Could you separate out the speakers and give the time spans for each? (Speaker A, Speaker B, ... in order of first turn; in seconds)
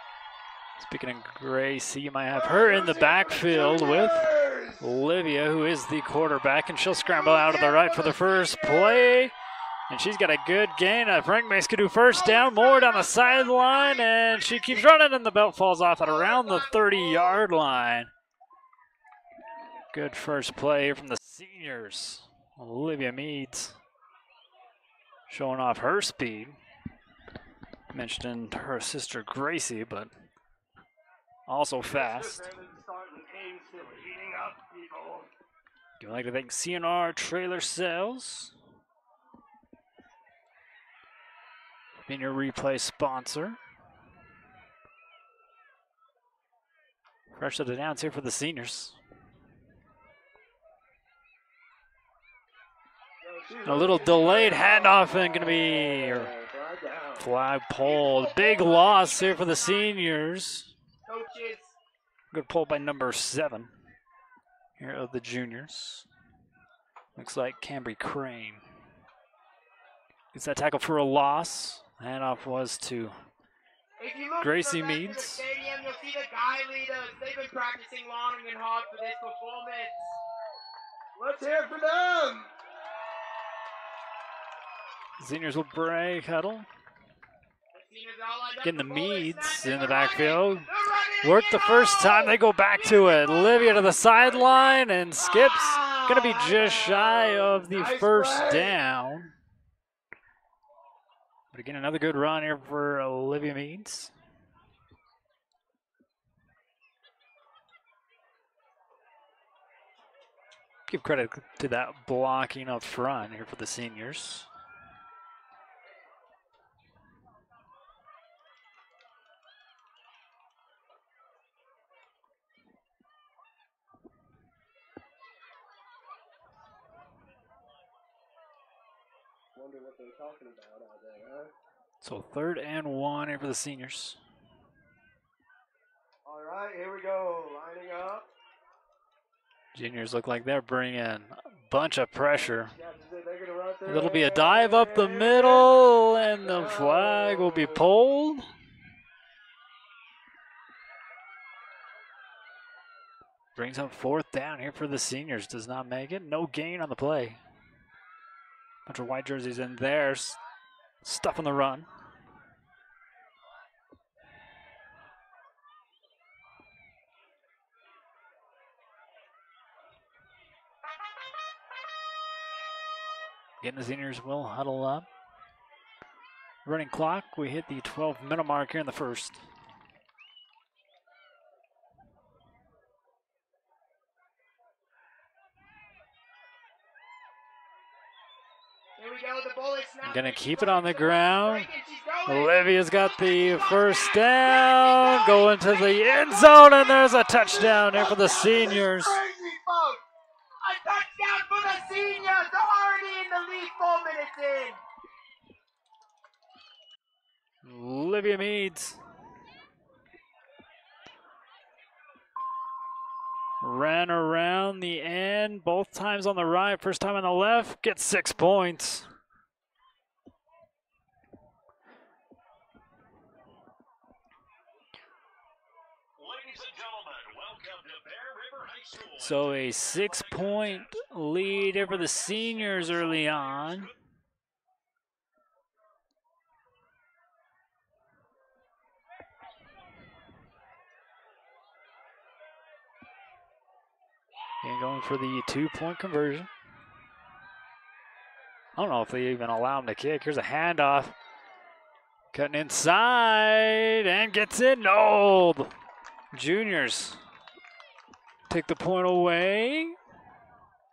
Speaker A: 0.8-9.3, 9.9-18.1, 19.9-23.8, 25.3-26.6, 27.9-30.1, 31.5-32.5, 36.0-38.5, 42.0-43.6, 47.3-49.0, 53.6-56.3, 57.2-60.7, 62.3-63.7, 64.8-66.1, 67.2-68.6, 70.3-73.1, 74.4-75.4, 85.2-86.7, 88.6-90.7, 91.2-99.3, 101.5-104.1, 110.9-114.5, 132.0-134.2, 139.7-142.7, 143.8-148.4, 153.6-157.4, 158.8-160.4, 161.0-161.9, 173.6-175.1, 176.6-179.4, 190.0-191.7, 192.2-199.2, 207.6-209.0, 213.6-219.1, 229.2-233.9, 244.6-246.5, 248.8-251.1, 252.3-255.7, 256.3-257.2, 258.5-260.0
Speaker B: 2.3-4.8, 7.0-9.1, 12.1-14.9, 16.0-17.4, 31.9-35.3, 53.2-57.2, 57.8-59.9, 61.0-61.8, 74.0-80.2, 81.2-82.5, 87.7-98.8, 129.6-131.5, 136.3-138.2, 142.8-147.8, 188.9-192.6, 193.4-200.0, 200.6-204.8
Speaker C: 226.2-231.1, 231.6-233.9